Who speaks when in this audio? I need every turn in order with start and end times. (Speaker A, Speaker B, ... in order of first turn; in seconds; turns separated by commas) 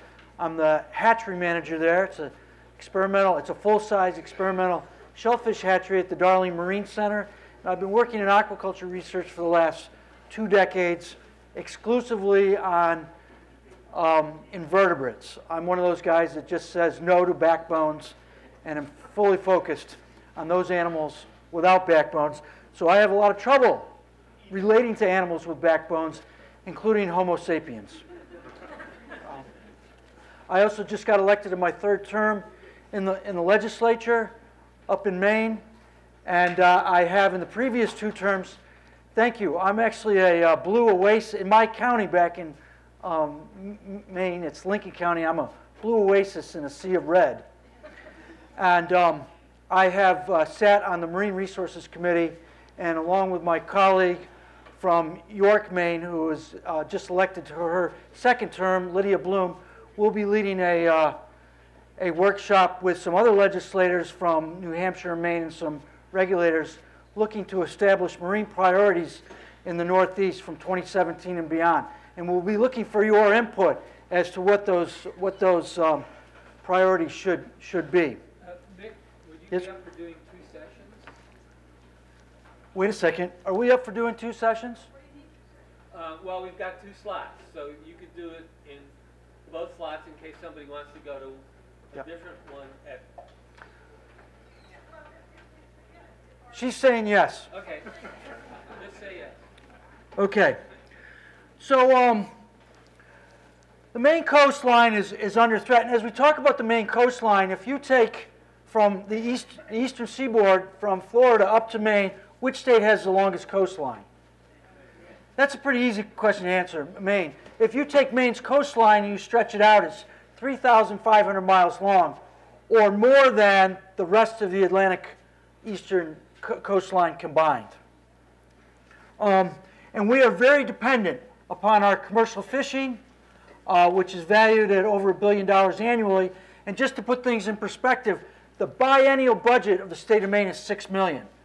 Speaker A: 0.4-13.1, Speaker A: 13.9-23.9, Speaker A: 24.5-28.0, Speaker A: 30.5-34.3, Speaker A: 34.9-35.6, Speaker A: 36.2-38.6, Speaker A: 39.1-47.4, Speaker A: 48.6-54.2, Speaker A: 54.8-61.1, Speaker A: 62.0-76.0, Speaker A: 76.6-78.2, Speaker B: 78.4-81.1, Speaker A: 82.7-84.9, Speaker B: 85.9-88.9, Speaker B: 89.5-93.1, Speaker A: 96.5-97.5, Speaker B: 97.5-97.9, Speaker B: 98.6-99.4, Speaker A: 100.2-100.6, Speaker A: 101.6-102.3, Speaker A: 103.9-114.0, Speaker A: 115.4-122.2, Speaker A: 122.7-127.8, Speaker A: 129.2-133.0, Speaker A: 133.7-141.3